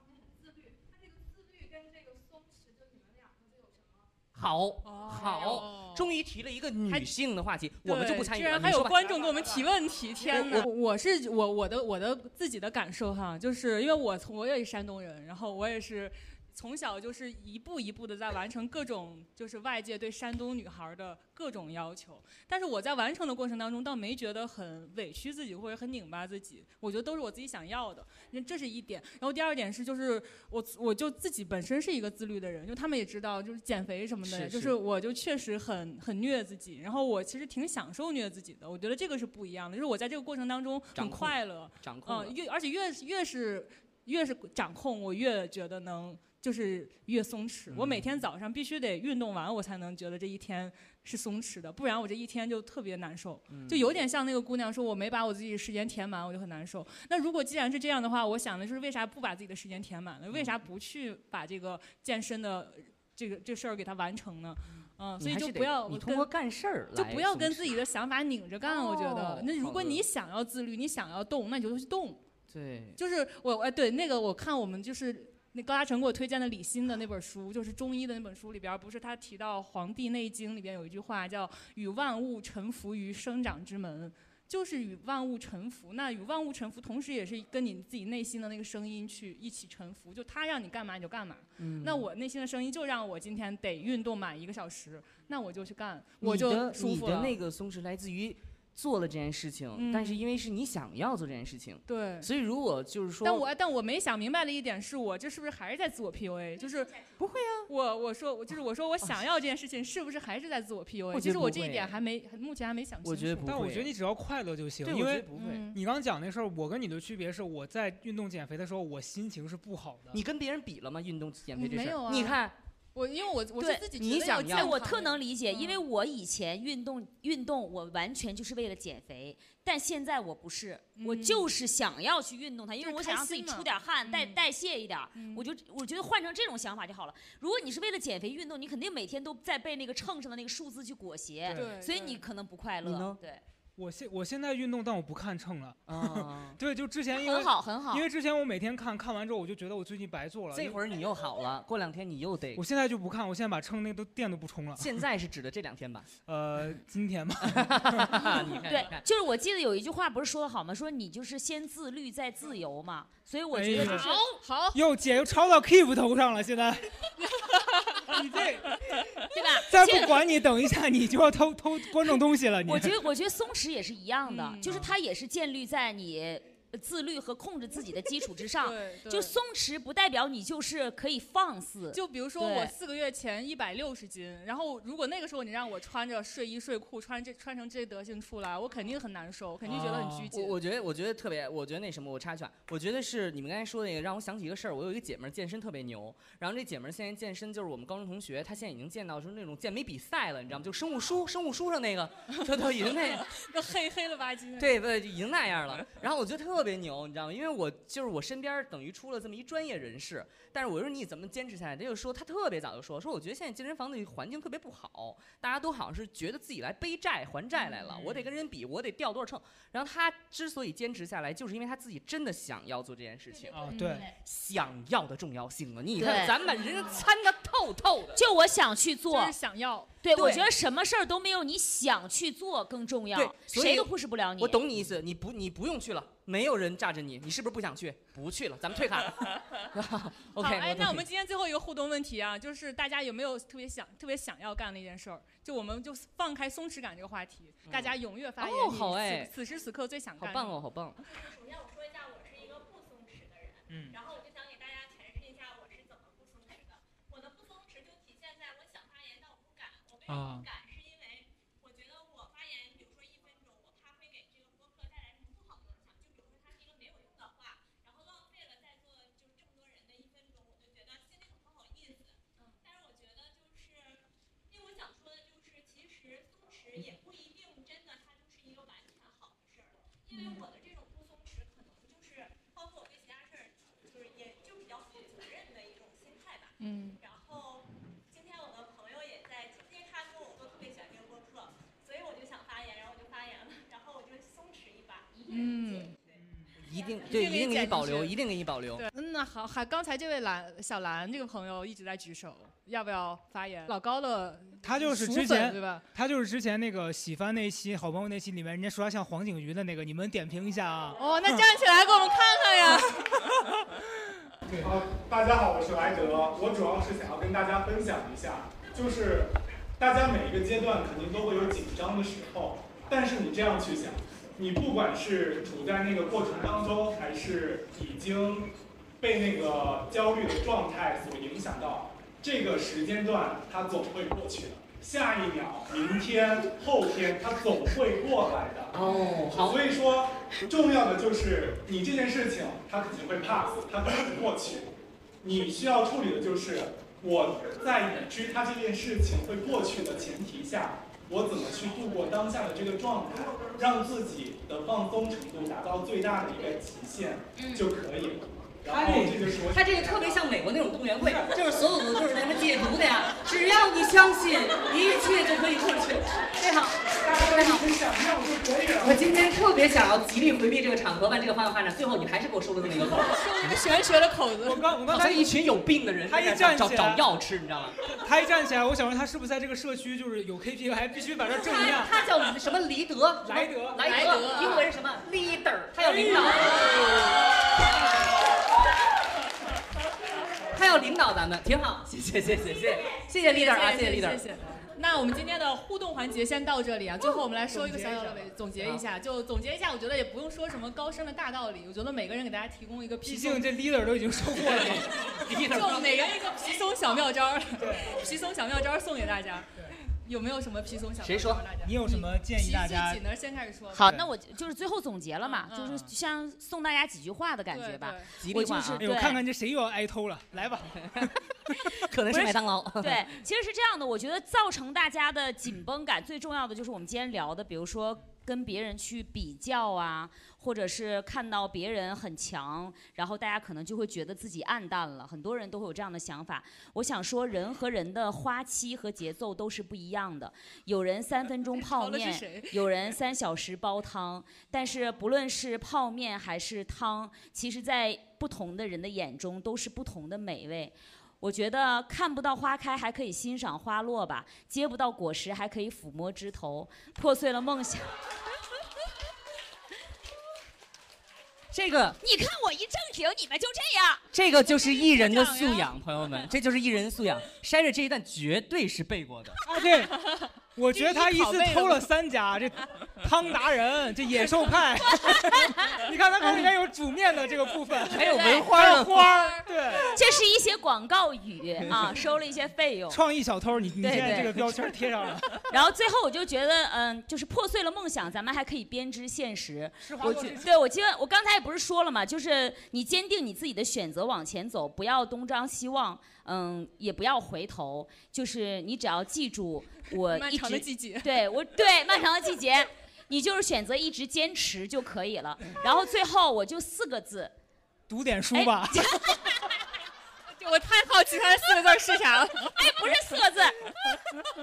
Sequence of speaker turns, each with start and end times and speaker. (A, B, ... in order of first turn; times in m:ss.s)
0:04.3-0:09.6 A
0:04.8-0:06.2 B
0:07.8-1:06.3 B
0:10.2-0:10.7 A
0:34.2-0:34.8 A
0:41.0-0:42.4 A
0:47.7-0:48.1 A
0:53.5-0:53.9 A
1:05.2-1:07.8 A
1:06.9-1:12.2 B
1:08.6-1:10.1 A
1:12.5-1:13.0 A
1:13.0-1:37.4 B
1:31.6-1:32.1 A
1:36.2-1:43.5 A
1:39.8-1:40.2 B
1:41.9-1:42.3 B
1:43.2-1:46.9 B
1:46.6-1:47.2 C
1:47.2-1:47.7 A
1:47.7-1:53.6 B
1:51.1-1:52.0 A
1:53.0-1:53.9 A
1:53.4-2:00.2 D
1:54.8-1:55.7 A
1:55.3-1:55.8 B
2:00.1-2:02.6 A
2:01.5-2:02.4 B
2:02.9-2:05.8 B
2:03.6-2:03.9 E
2:04.0-2:04.8 A
2:04.5-2:23.4 E
2:11.0-2:11.5 B
2:12.8-2:14.4 B
2:15.2-2:15.5 B
2:21.5-2:22.2 B
2:22.8-2:23.2 A
2:23.8-2:30.8 D
2:25.9-2:26.6 A
2:27.1-2:28.1 E
2:30.5-2:32.6 A
2:32.6-2:35.0 D
2:34.8-2:36.1 A
2:36.3-2:38.4 D
2:37.5-2:39.0 A
2:38.7-2:44.1 E
2:43.5-2:44.1 D
2:43.8-2:44.8 B
2:44.7-2:46.9 D
2:47.5-2:48.2 B
2:48.1-2:48.8 D
2:49.3-2:50.2 E
2:49.7-2:53.0 D
2:52.7-3:02.7 E
2:54.2-2:54.7 B
2:54.6-2:54.9 D
2:58.6-2:59.4 B
3:01.9-3:10.6 B
3:09.6-3:10.3 D
3:09.7-3:23.3 A
3:23.2-3:24.8 B
3:24.6-3:48.2 A
3:37.6-3:38.1 B
3:38.0-3:38.2 D
3:43.5-3:44.1 D
3:43.7-3:44.1 B
3:46.0-3:46.4 E
3:48.2-3:49.4 E
3:49.1-3:49.9 B
3:50.0-3:54.6 E
3:50.1-3:50.5 A
3:53.1-4:01.1 A
4:00.4-4:10.6 B
4:07.7-4:09.3 A
4:10.2-4:11.0 A
4:11.0-4:57.2 C
4:13.7-4:14.0 D
4:20.1-4:20.5 D
4:40.1-4:40.5 B
4:46.6-4:47.0 B
4:55.3-4:55.9 B
4:56.6-4:58.9 A
4:57.1-4:58.2 B
4:58.8-5:05.8 B
5:04.6-5:11.5 D
5:11.0-5:13.3 B
5:14.5-5:14.8 D
5:14.6-5:38.8 F
5:38.7-5:39.6 A
5:39.3-5:44.7 F
5:45.2-6:00.3 F
5:58.7-5:59.4 D
5:58.7-6:07.6 A
6:06.9-6:09.1 F
6:08.8-6:13.2 A
6:12.8-6:14.7 B
6:14.4-6:15.4 D
6:14.9-6:17.8 A
6:16.0-6:17.1 D
6:17.9-6:22.0 D
6:21.3-6:27.2 A
6:23.2-6:24.1 D
6:23.8-6:24.7 B
6:25.9-6:27.0 B
6:26.1-6:26.4 D
6:30.5-6:34.2 A
6:33.2-6:43.6 B
6:37.4-6:38.4 D
6:38.6-6:38.8 A
6:43.0-6:45.2 D
6:44.4-6:46.1 A
6:45.1-6:53.9 B
6:47.6-6:48.2 D
6:51.0-6:51.4 A
6:51.6-6:53.0 D
6:53.7-6:59.2 E
6:53.8-6:54.1 D
6:55.2-6:55.8 B
6:55.6-6:55.9 D
6:57.5-6:58.2 B
6:58.2-6:58.8 A
6:58.8-7:01.2 D
7:00.8-7:01.1 A
7:01.7-7:03.1 A
7:02.1-7:37.9 E
7:21.4-7:23.0 B
7:41.5-7:42.0 A
7:42.0-7:44.0 E
7:44.1-7:49.4 A
7:44.3-7:45.8 B
7:49.4-7:50.0 D
7:49.8-7:51.8 B
7:50.6-8:00.0 D
7:54.2-7:54.5 B
7:57.9-7:59.1 A
7:58.1-7:58.4 E
7:58.2-8:00.0 B
8:00.0-8:03.0 E
8:02.9-8:05.5 D
8:03.8-8:04.4 E
8:04.0-8:04.5 A
8:05.5-8:27.3 E
8:09.8-8:10.5 D
8:10.0-8:10.3 A
8:20.1-8:21.2 B
8:27.9-8:29.4 D
8:28.3-8:29.4 E
8:30.3-8:32.9 B
8:32.5-8:33.6 E